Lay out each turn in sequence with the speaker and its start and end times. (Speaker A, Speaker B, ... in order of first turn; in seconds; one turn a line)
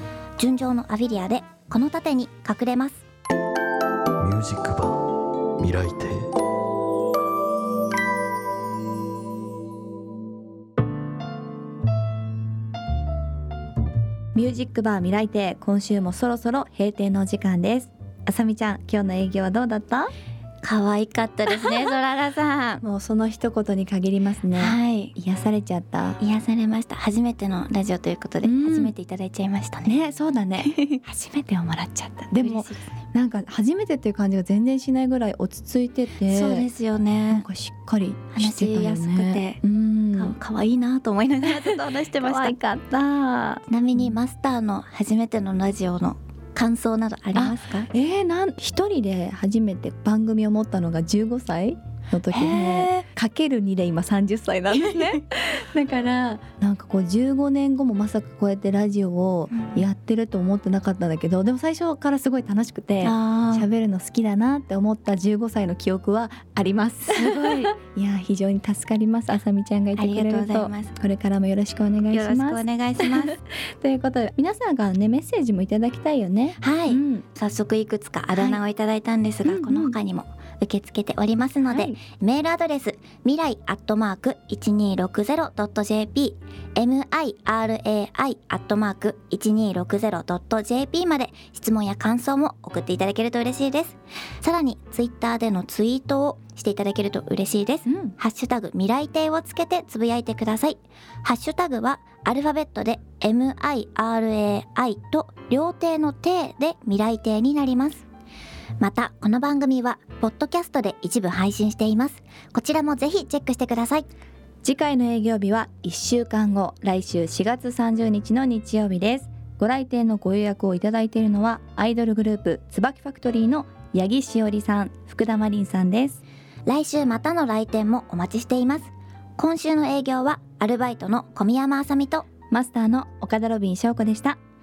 Speaker A: 0.4-3.0
Speaker B: 4.2-6.3
Speaker C: 14.3-20.1
Speaker A: 20.6-22.8
Speaker C: 22.8-26.2
Speaker A: 24.5-25.1
Speaker A: 26.2-30.0
Speaker C: 28.4-28.9
Speaker C: 29.8-31.0
Speaker A: 30.6-32.9
Speaker C: 32.3-36.7
Speaker A: 36.3-37.5
Speaker C: 37.3-40.4
Speaker A: 38.4-39.6
Speaker A: 40.1-42.5
Speaker C: 41.4-44.1
Speaker A: 43.7-47.9
Speaker C: 47.3-72.6
Speaker A: 52.3-53.0
Speaker A: 54.9-55.2
Speaker A: 59.5-59.8
Speaker A: 63.0-63.7
Speaker A: 70.0-71.0
Speaker A: 72.1-73.4
Speaker C: 73.2-77.2
Speaker A: 76.6-108.0
Speaker C: 78.3-78.6
Speaker C: 79.4-80.0
Speaker C: 81.7-82.0
Speaker C: 97.8-98.1
Speaker A: 108.8-114.1
Speaker C: 114.6-126.2
Speaker A: 126.7-132.3
Speaker C: 132.5-134.4